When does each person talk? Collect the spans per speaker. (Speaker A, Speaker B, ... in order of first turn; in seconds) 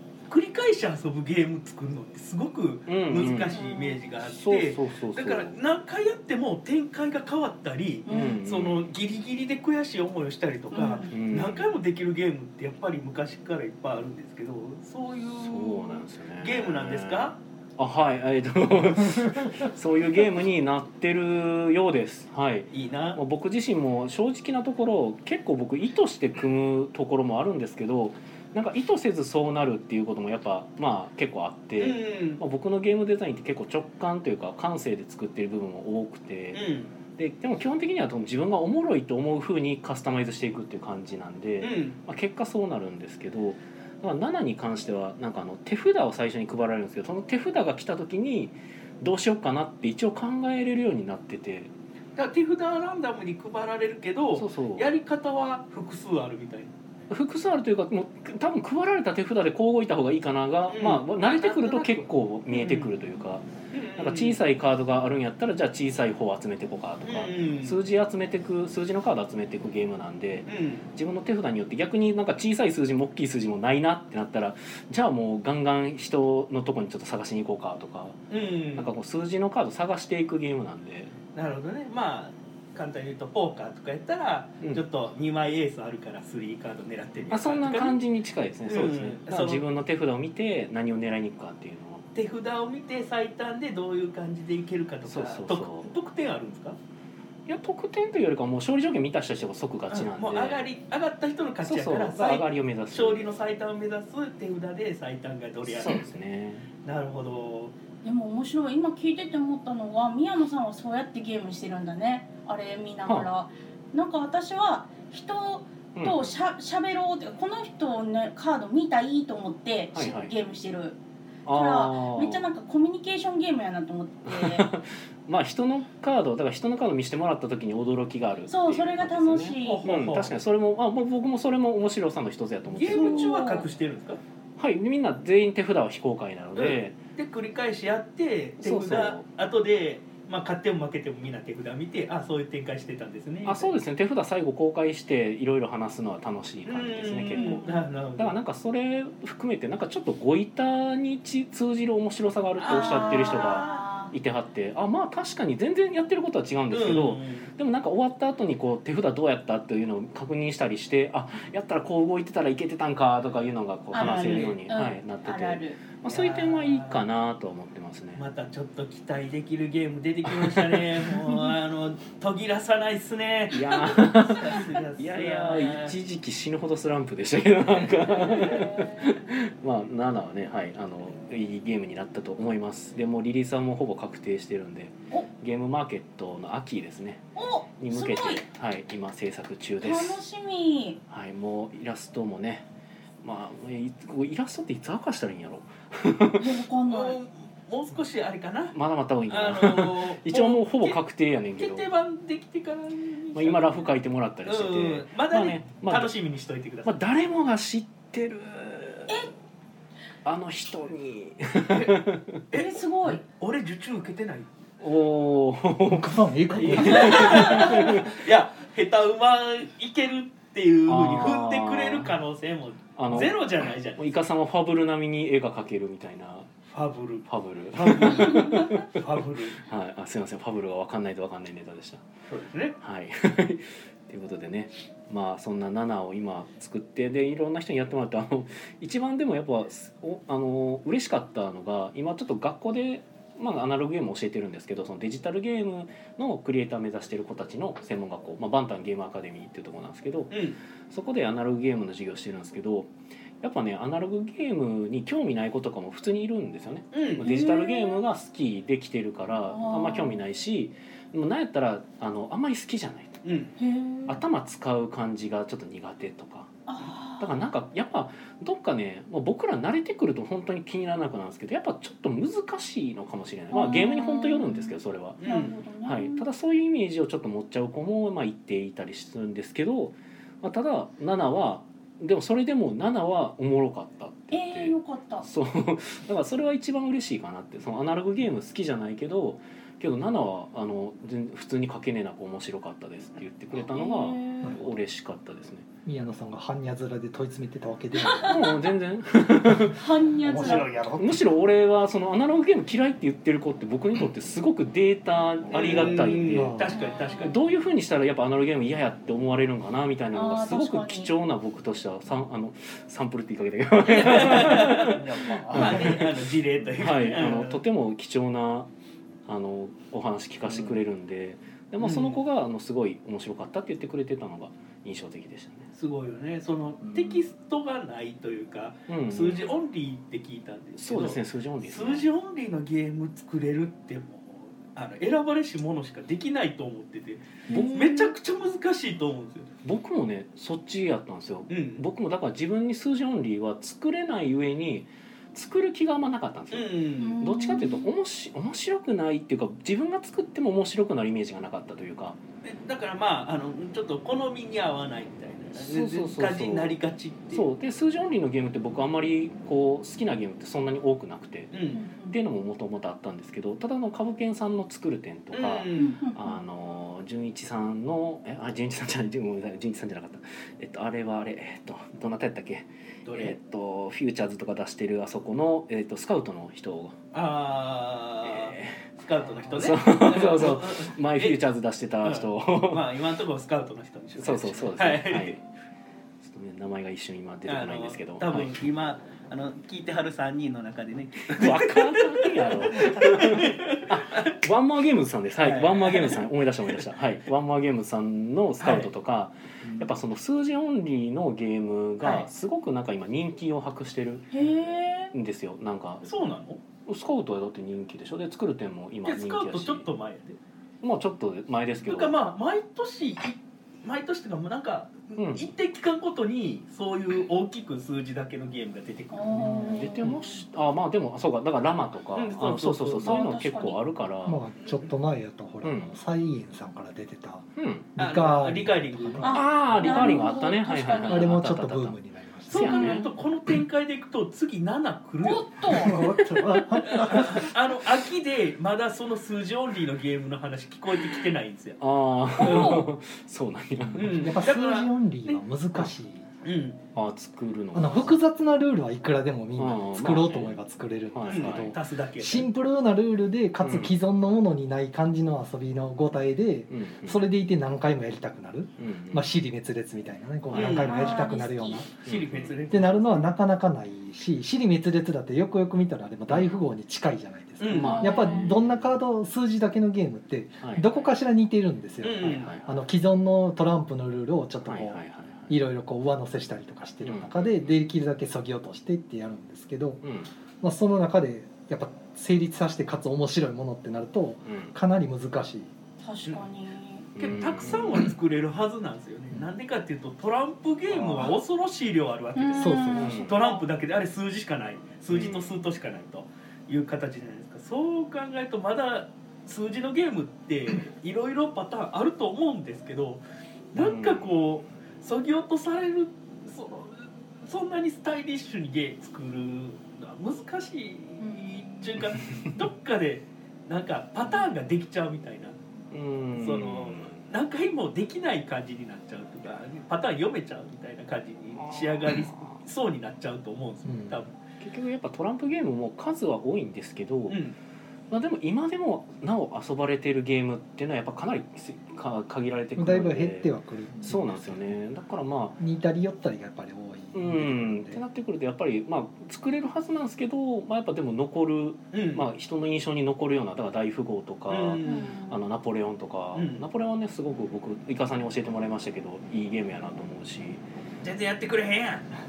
Speaker A: 0.3-17.4, 22.7-23.2, 31.8-32.4, 36.5-36.9, 41.6-42.0, 52.1-56.7, 60.7-62.9, 63.7-64.4, 67.0-67.8, 70.5-70.9, 78.3-78.9, 81.3-88.0, 88.6-89.6, 92.1-96.8, 99.9-106.1, 106.8-107.7, 129.6-130.4, 132.7-134.2, 136.6-143.7, 146.7-148.3, 152.6-153.9, 156.7-157.5, 163.9-164.6, 166.1-167.1, 168.2-176.0, 196.9-198.8, 199.3-201.0, 201.6-203.8, 204.4-206.9, 211.7-214.5, 216.5-224.0, 226.7-229.6, 232.3-232.8, 250.3-250.6, 256.9-257.4, 263.2-263.5, 275.2-275.6, 305.5-307.3, 313.8-317.6, 321.8-322.2, 325.7-339.5, 341.5-341.9, 346.5-347.2, 352.4-357.5, 361.5-361.8, 365.3-366.0, 373.1-373.3, 377.1-381.4, 382.0-385.4, 387.4-394.3, 395.4-396.8, 398.6-398.9, 402.0-402.3, 406.0-406.6, 409.1-410.4, 411.8-419.7, 422.1-423.2, 428.0-430.0, 432.5-435.5, 436.9-441.8, 442.4-442.8, 443.9-445.4, 446.4-446.8, 451.3-452.5, 460.5-461.2, 462.0-463.3, 467.6-468.2, 472.0-472.5, 487.2-515.6, 516.4-524.3, 527.3-527.6, 541.9-542.2, 544.5-545.1, 546.4-546.6, 551.0-552.1
Speaker B: 2.9-3.5, 4.2-5.6, 8.1-8.9, 11.1-11.7, 15.3-51.7, 54.3-54.9, 57.1-63.4, 64.0-78.2, 78.8-81.1, 87.3-92.0, 95.0-95.9, 97.5-100.7, 101.7-103.3, 105.7-106.7, 115.9-116.4, 119.9-120.3, 121.5-122.5, 124.3-133.4, 134.6-137.0, 138.6-139.3, 143.4-168.2, 170.3-171.1, 173.5-187.2, 187.8-190.2, 191.1-192.7, 193.2-196.5, 198.7-201.9, 203.3-206.1, 206.8-209.3, 210.2-212.4, 214.8-218.2, 220.9-222.2, 222.9-223.4, 223.9-226.5, 227.3-232.1, 232.8-252.9, 253.4-263.2, 264.1-266.5, 267.2-295.7, 298.3-299.8, 301.0-318.7, 319.3-325.7, 328.9-329.6, 330.8-332.1, 337.5-337.8, 339.6-352.2, 355.6-356.8, 357.3-361.5, 362.1-377.0, 378.2-378.9, 379.5-382.9, 384.2-385.4, 386.2-388.6, 391.3-404.3, 405.1-406.1, 406.9-409.9, 410.8-412.1, 415.2-415.5, 419.4-424.4, 425.6-425.9, 427.6-427.9, 429.3-432.0, 432.5-433.0, 435.9-437.0, 441.8-444.4, 446.9-448.1, 449.6-450.6, 451.1-451.7, 453.6-453.9, 456.7-457.2, 458.8-459.3, 462.0-462.6, 467.7-468.7, 470.6-470.9, 472.2-472.8, 474.6-475.5, 477.0-477.7, 480.0-480.3, 484.4-484.7, 487.1-488.1, 492.9-493.4, 495.1-495.7, 503.8-504.4, 515.9-517.2, 521.6-522.6, 524.6-527.4, 528.1-535.6, 537.1-550.6
Speaker C: 3.5-4.0, 8.1-8.4, 10.7-11.1, 108.0-124.7, 128.5-129.8, 132.9-133.7, 147.3-147.7, 152.7-154.1, 163.9-165.8, 178.3-179.1, 187.3-188.4, 189.8-191.0, 196.4-197.2, 212.5-213.2, 216.8-217.9, 228.1-228.8, 257.2-258.0, 259.3-260.2, 263.6-264.2, 266.7-267.3, 273.5-276.2, 284.3-285.3, 293.6-294.6, 298.0-298.7, 299.7-300.8, 306.7-307.3, 310.1-311.1, 337.5-338.1, 347.0-347.9, 361.7-362.2, 365.7-366.4, 404.3-405.1, 419.1-420.4, 423.0-423.8, 429.2-431.4, 432.6-433.1, 435.2-435.9, 442.4-442.9, 460.6-461.8, 467.7-468.6, 486.0-487.1, 492.4-493.6, 544.9-545.4
Speaker D: 215.9-217.4, 295.8-298.4, 306.3-306.7, 419.4-419.8, 424.3-430.3, 431.0-432.7, 436.7-437.4, 443.9-446.3, 447.7-461.9, 462.7-480.0, 480.6-485.7, 490.9-491.3, 492.6-493.3, 523.9-524.1, 532.8-534.7, 535.6-538.0
Speaker E: 300.2-301.3, 314.9-315.8, 435.8-437.2